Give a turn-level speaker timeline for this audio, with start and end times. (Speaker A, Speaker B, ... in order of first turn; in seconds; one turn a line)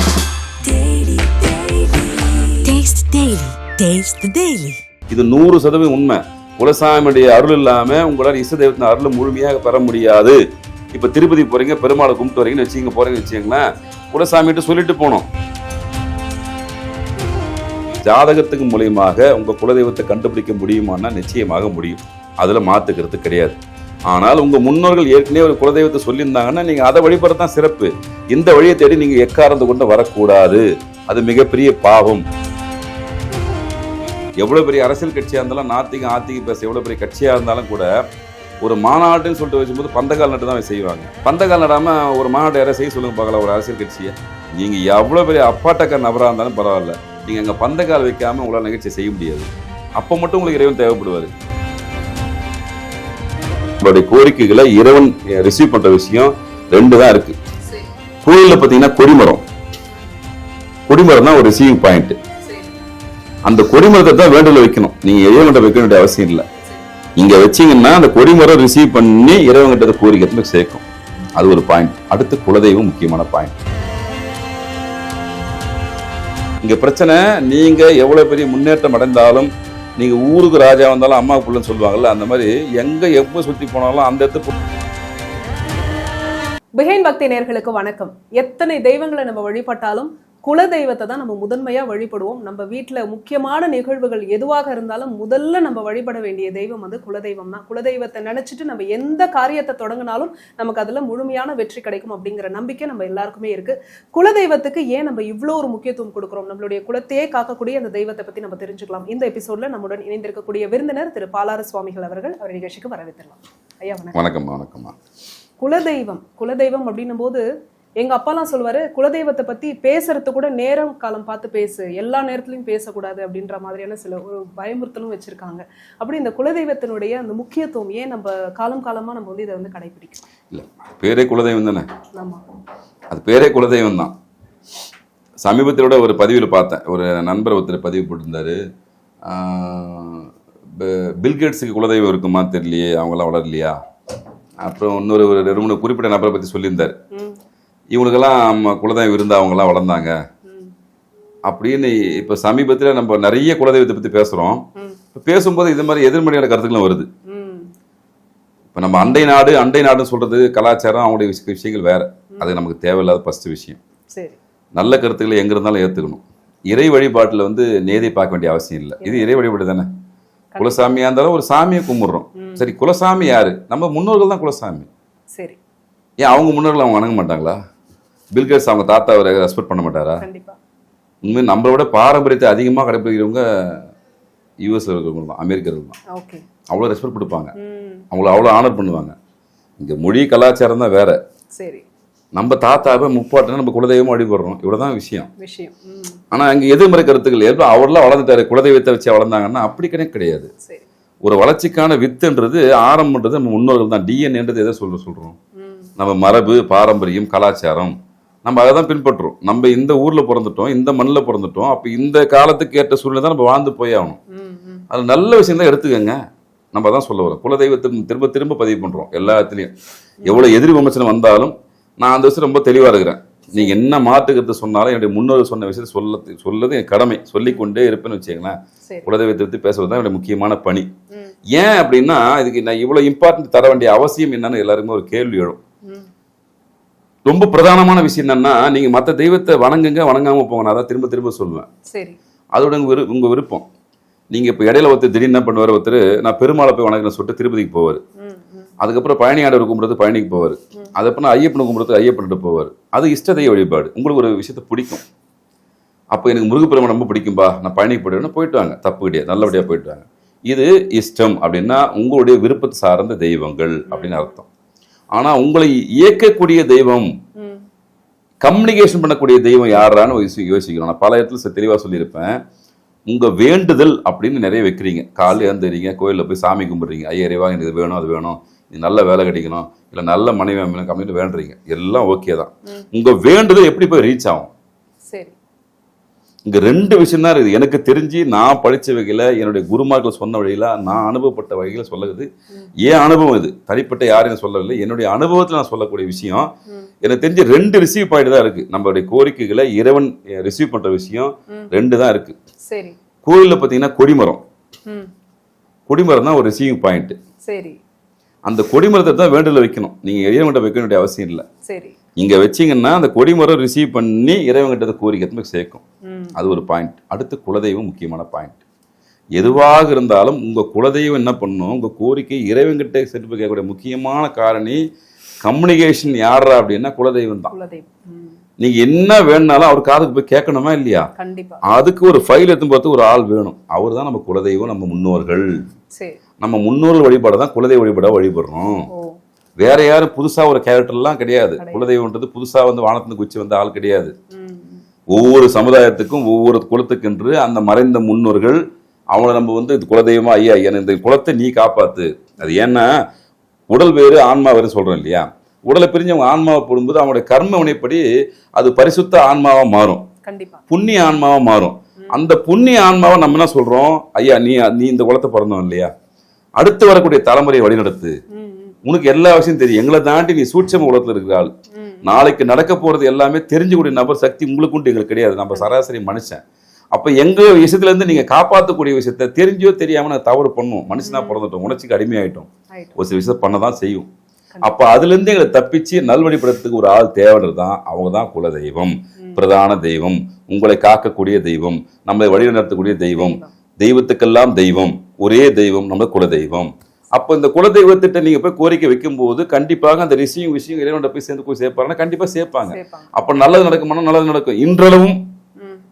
Speaker A: 0.6-4.8
Speaker B: 5.1-10.4
Speaker B: 10.9-15.3
Speaker B: 18.0-32.2
Speaker B: 34.4-37.9
Speaker B: 38.6-51.3
Speaker B: 53.8-57.4
Speaker B: 58.2-59.4
Speaker B: 60.9-62.2
Speaker C: 62.4-62.9
Speaker B: 63.4-66.5
Speaker B: 67.2-70.8
Speaker B: 71.3-73.5
Speaker B: 76.6-84.5
Speaker C: 86.8-114.2
Speaker B: 114.1-115.0
Speaker C: 115.6-117.4
Speaker C: 118.0-130.2
Speaker B: 130.5-131.9
Speaker C: 132.2-132.4
Speaker B: 133.1-134.1
Speaker B: 135.4-138.6
Speaker B: 139.2-143.8
Speaker B: 144.6-147.0
Speaker C: 147.1-147.4
Speaker B: 147.9-150.2
Speaker C: 150.5-150.7
Speaker B: 151.5-157.1
Speaker C: 157.3-157.7
Speaker B: 158.7-163.8
Speaker B: 164.8-169.9
Speaker C: 169.0-169.3
Speaker C: 170.5-170.8
Speaker B: 170.6-174.9
Speaker C: 172.4-172.7
Speaker B: 176.2-177.6
Speaker B: 178.3-180.2
Speaker C: 180.2-180.6
Speaker B: 181.2-183.8
Speaker B: 184.6-186.0
Speaker C: 186.1-186.4
Speaker B: 186.7-187.5
Speaker C: 187.6-188.1
Speaker B: 188.1-189.2
Speaker B: 189.8-191.2
Speaker C: 191.6-191.8
Speaker B: 192.3-195.3
Speaker C: 195.4-196.2
Speaker B: 196.3-200.5
Speaker B: 201.2-205.4
Speaker C: 205.6-205.9
Speaker B: 206.0-214.2
Speaker C: 214.3-214.8
Speaker B: 214.9-216.2
Speaker B: 216.7-219.7
Speaker C: 220.2-220.6
Speaker B: 220.2-230.9
Speaker B: 231.5-235.6
Speaker C: 235.8-236.1
Speaker B: 237.3-241.7
Speaker C: 241.9-242.2
Speaker B: 242.6-243.7
Speaker B: 244.3-248.0
Speaker C: 248.2-248.7
Speaker B: 248.8-255.0
Speaker B: 256.1-264.4
Speaker C: 263.9-264.3
Speaker B: 265.1-267.1
Speaker C: 267.4-267.6
Speaker B: 268.4-272.4
Speaker B: 273.1-284.5
Speaker C: 275.3-275.6
Speaker B: 286.4-296.5
Speaker B: 297.0-302.4
Speaker C: 301.5-301.8
Speaker C: 302.7-303.0
Speaker B: 303.2-304.4
Speaker B: 305.9-307.2
Speaker C: 307.4-307.8
Speaker B: 308.4-311.5
Speaker C: 311.6-311.9
Speaker B: 312.2-315.8
Speaker C: 316.0-316.4
Speaker B: 316.4-318.6
Speaker B: 319.4-324.8
Speaker B: 325.4-327.5
Speaker C: 327.5-328.4
Speaker B: 328.6-331.1
Speaker C: 331.2-331.6
Speaker B: 331.6-335.6
Speaker C: 335.9-336.2
Speaker B: 336.4-338.9
Speaker C: 338.9-339.2
Speaker B: 339.6-344.1
Speaker C: 341.6-341.9
Speaker C: 344.3-344.8
Speaker B: 345.1-348.6
Speaker B: 349.1-352.9
Speaker B: 353.7-358.0
Speaker B: 358.6-360.1
Speaker C: 360.2-360.6
Speaker B: 360.7-365.9
Speaker B: 366.6-368.2
Speaker C: 368.3-368.8
Speaker B: 368.9-371.5
Speaker C: 371.7-372.2
Speaker B: 372.0-376.4
Speaker B: 376.9-384.1
Speaker C: 381.0-381.4
Speaker C: 382.7-383.0
Speaker B: 384.6-405.2
Speaker C: 393.1-393.5
Speaker C: 402.7-403.1
Speaker C: 405.6-405.8